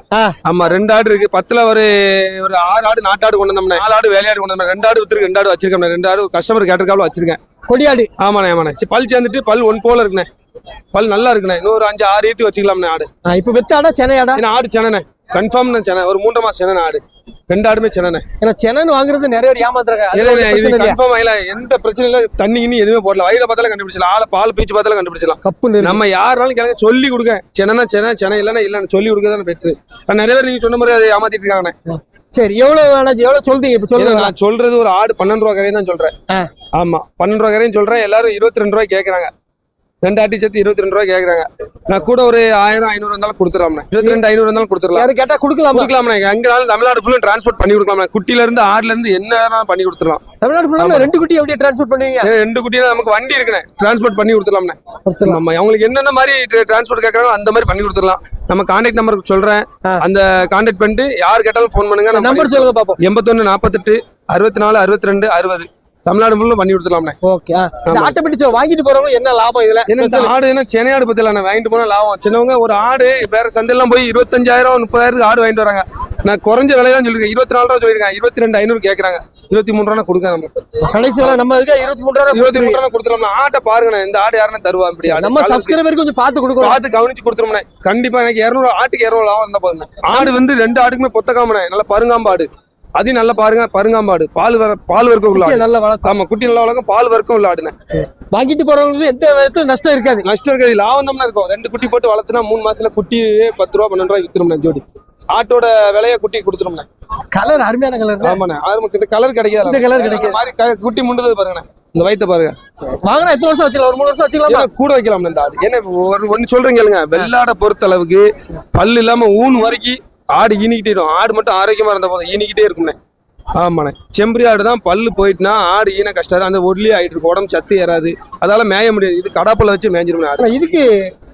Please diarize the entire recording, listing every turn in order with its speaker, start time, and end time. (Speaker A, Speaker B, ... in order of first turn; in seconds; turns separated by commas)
Speaker A: 0.4-7.4, Speaker B: 7.7-8.1, Speaker A: 8.2-10.3, Speaker A: 10.9-13.1, Speaker B: 13.2-14.4, Speaker A: 14.3-18.2, Speaker B: 18.4-21.0, Speaker A: 20.1-31.7, Speaker B: 25.4-26.0, Speaker B: 31.9-34.3, Speaker A: 34.0-36.1, Speaker A: 36.7-39.3, Speaker A: 40.0-45.1, Speaker B: 44.9-45.9, Speaker A: 45.7-50.2, Speaker B: 50.4-52.3, Speaker A: 50.8-51.1, Speaker A: 52.2-67.2, Speaker B: 55.1-55.4, Speaker B: 62.1-63.0, Speaker B: 67.2-70.3, Speaker A: 67.8-68.1, Speaker A: 69.9-80.5, Speaker B: 80.8-82.8, Speaker A: 82.3-85.8, Speaker B: 85.0-86.8, Speaker A: 86.6-97.7, Speaker B: 95.3-96.2, Speaker B: 98.0-100.3, Speaker A: 100.2-106.9, Speaker B: 107.3-108.4, Speaker A: 108.2-112.5, Speaker B: 109.6-110.4, Speaker B: 113.0-114.7, Speaker A: 114.5-123.0, Speaker A: 123.5-130.5, Speaker B: 130.4-130.9